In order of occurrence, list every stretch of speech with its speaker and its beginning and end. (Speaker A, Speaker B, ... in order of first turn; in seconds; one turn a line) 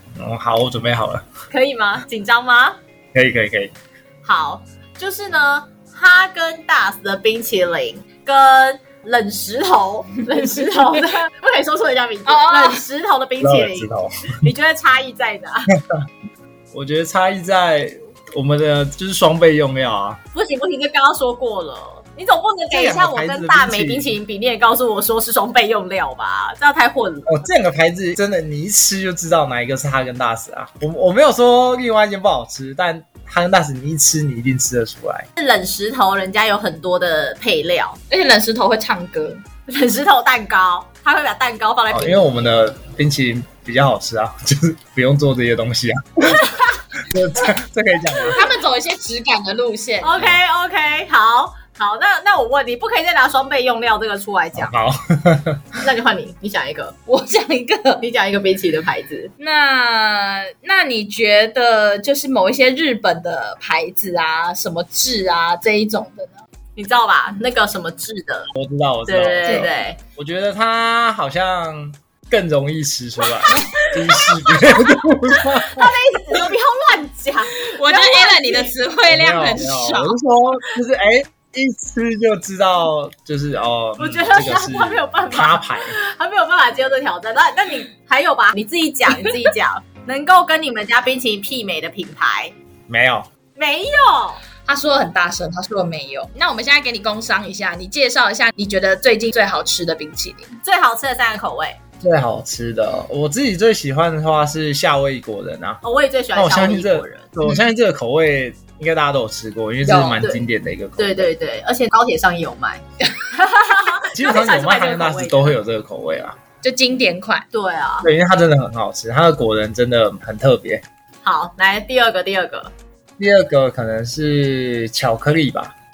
Speaker A: 0.1-1.3
Speaker B: 1.5-2.8
Speaker A: 3.1-3.8
Speaker B: 4.2-15.7
Speaker C: 12.2-12.8
Speaker A: 13.4-14.4
Speaker A: 16.7-20.2
Speaker B: 20.3-27.4
Speaker A: 22.7-24.1
Speaker A: 27.3-35.3
Speaker B: 35.4-38.0
Speaker C: 38.1-39.4
Speaker B: 39.7-42.4
Speaker A: 41.9-48.4
Speaker C: 48.3-50.2
Speaker B: 50.0-54.7
Speaker A: 54.6-55.7
Speaker B: 55.8-57.0
Speaker C: 57.1-58.0
Speaker B: 58.0-59.3
Speaker C: 59.4-66.4
Speaker B: 66.8-68.5
Speaker A: 68.5-75.9
Speaker B: 69.1-70.0
Speaker B: 74.2-78.7
Speaker C: 77.7-80.2
Speaker A: 79.0-85.9
Speaker B: 84.0-92.5
Speaker A: 92.9-93.3
Speaker B: 93.5-94.4
Speaker C: 94.7-100.6
Speaker B: 100.6-101.8
Speaker A: 102.0-105.8
Speaker B: 105.8-107.3
Speaker A: 106.3-111.3
Speaker C: 109.8-110.2
Speaker B: 111.0-115.6
Speaker A: 114.1-116.4
Speaker C: 116.6-117.5
Speaker B: 117.5-118.1
Speaker A: 118.0-120.8
Speaker B: 121.2-122.7
Speaker A: 123.2-125.7